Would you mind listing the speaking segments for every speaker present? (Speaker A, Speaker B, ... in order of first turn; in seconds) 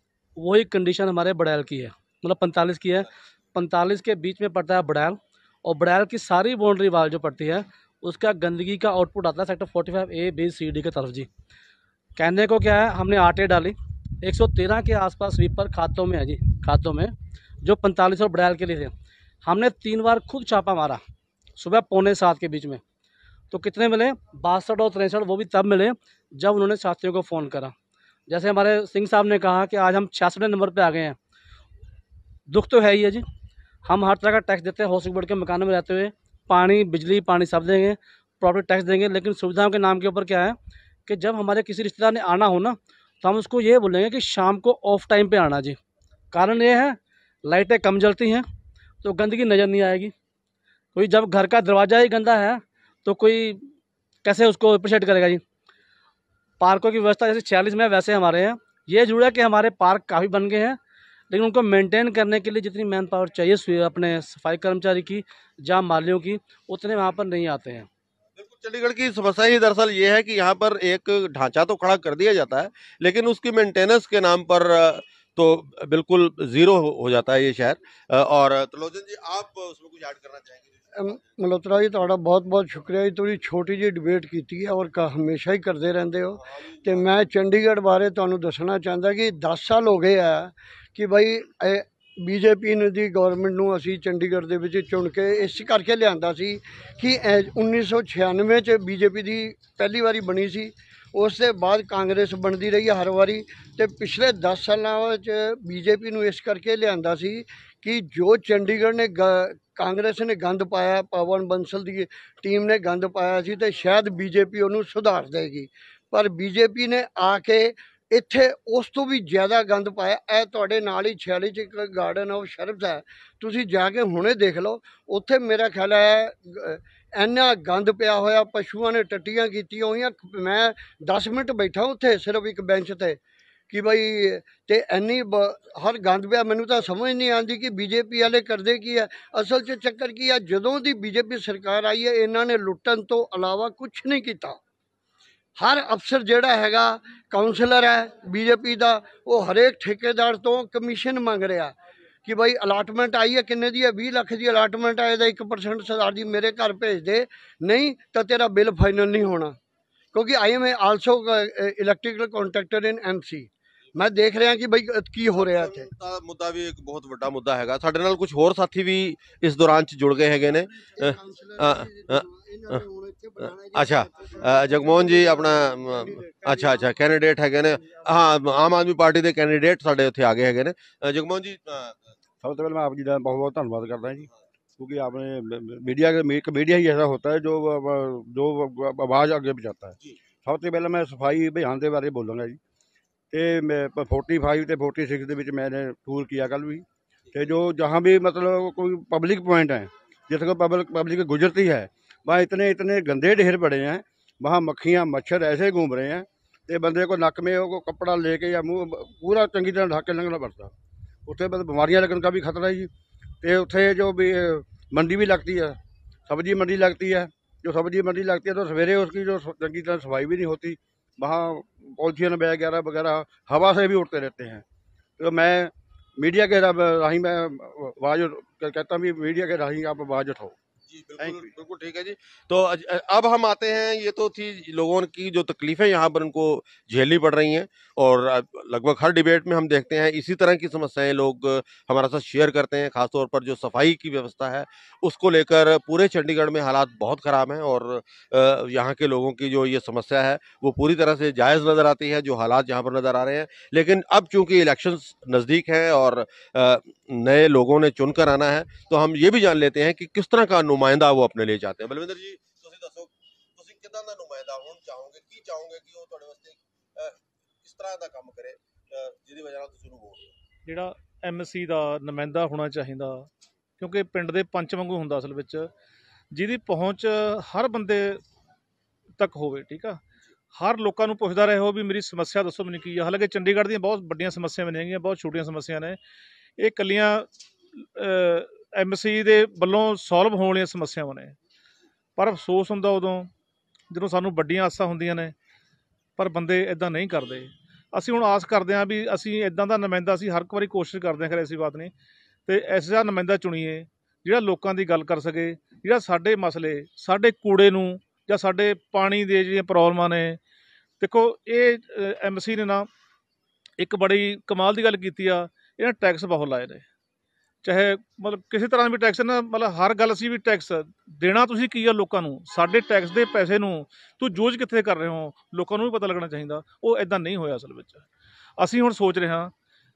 Speaker A: 0.4-11.3, 12.2-18.9, 19.4-21.0, 21.6-22.8, 23.5-27.7, 28.3-31.2, 32.5-33.2, 33.9-45.8, 46.3-48.5, 49.0-50.1, 51.0-53.7, 54.2-55.4, 56.6-60.8, 61.3-67.9
Speaker B: 68.4-81.3, 86.3-87.1, 165.3-172.8, 173.7-182.2, 230.9-270.3
Speaker C: 81.0-133.2, 133.7-144.6, 145.6-159.6, 160.1-165.9, 170.4-177.0, 177.8-178.1
Speaker D: 182.4-192.6, 193.3-210.7, 211.3-212.9, 213.4-224.6, 225.2-230.6, 231.2-231.5
Speaker E: 270.7-273.3, 273.8-275.7, 276.3-278.2, 279.2-280.0, 280.6-286.0, 286.6-291.4, 292.2-293.3, 293.9-295.3, 296.2-301.9, 302.5-310.4, 311.0-312.9, 313.8-316.9, 317.6-328.1, 328.6-329.5